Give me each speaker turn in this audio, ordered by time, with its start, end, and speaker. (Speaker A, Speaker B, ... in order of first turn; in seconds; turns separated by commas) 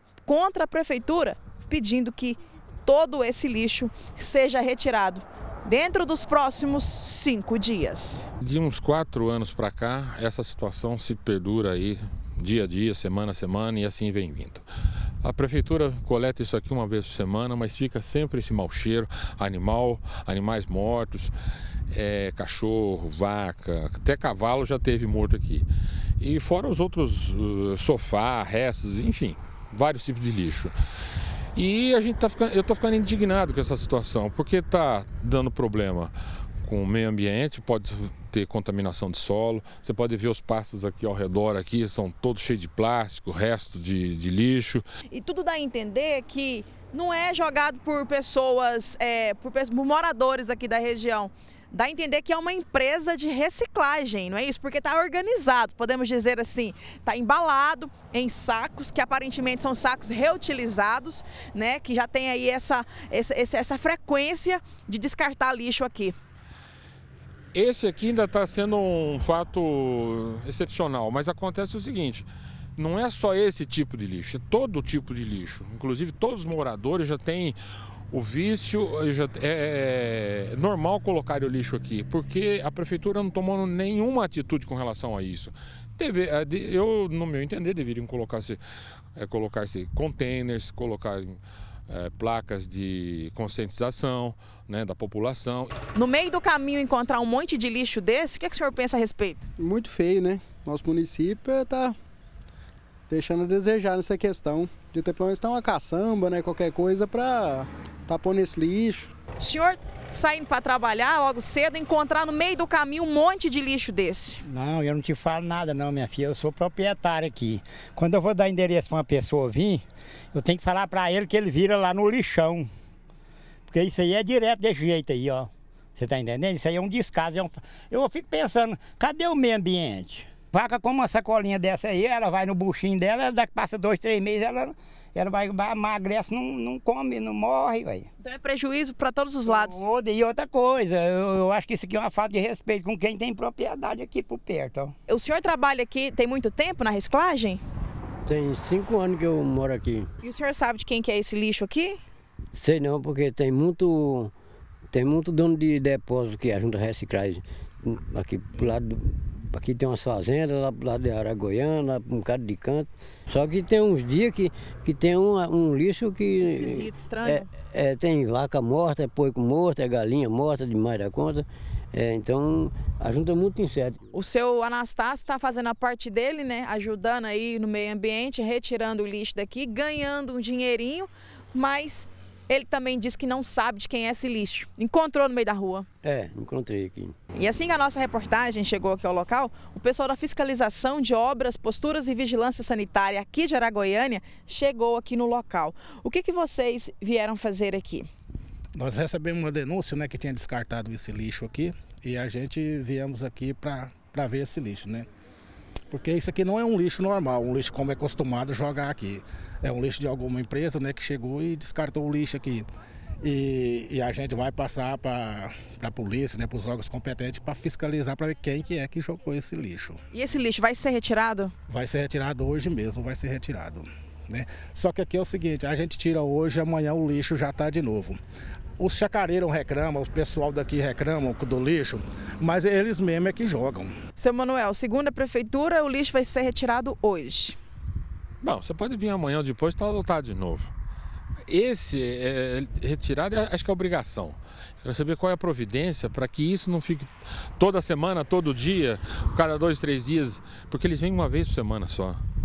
Speaker A: 0.2-8.3, Speaker B: 8.4-14.6, Speaker B: 15.2-21.3, Speaker B: 21.9-25.7, Speaker B: 26.2-30.7, Speaker B: 31.5-36.1, Speaker B: 36.6-44.8, Speaker A: 45.1-66.1, Speaker B: 67.5-77.6, Speaker B: 78.1-88.6, Speaker B: 89.2-95.7, Speaker A: 95.9-99.5, Speaker C: 99.6-101.9, Speaker C: 103.1-109.1, Speaker A: 109.4-114.4, Speaker D: 114.4-122.7, Speaker D: 123.7-138.1, Speaker A: 138.2-139.8, Speaker D: 139.5-144.9, Speaker A: 145.1-147.6, Speaker E: 148.2-150.1, Speaker A: 150.2-152.0, Speaker E: 152.6-154.3, Speaker E: 154.9-174.1, Speaker A: 166.4-167.5, Speaker A: 174.1-185.9, Speaker E: 186.0-187.1, Speaker A: 187.3-198.1, Speaker F: 198.7-205.1, Speaker F: 205.9-212.7, Speaker F: 213.2-220.0, Speaker A: 220.1-221.5, Speaker F: 221.7-228.2, Speaker F: 228.8-233.9, Speaker A: 234.2-237.6, Speaker B: 238.4-240.7, Speaker B: 241.5-252.2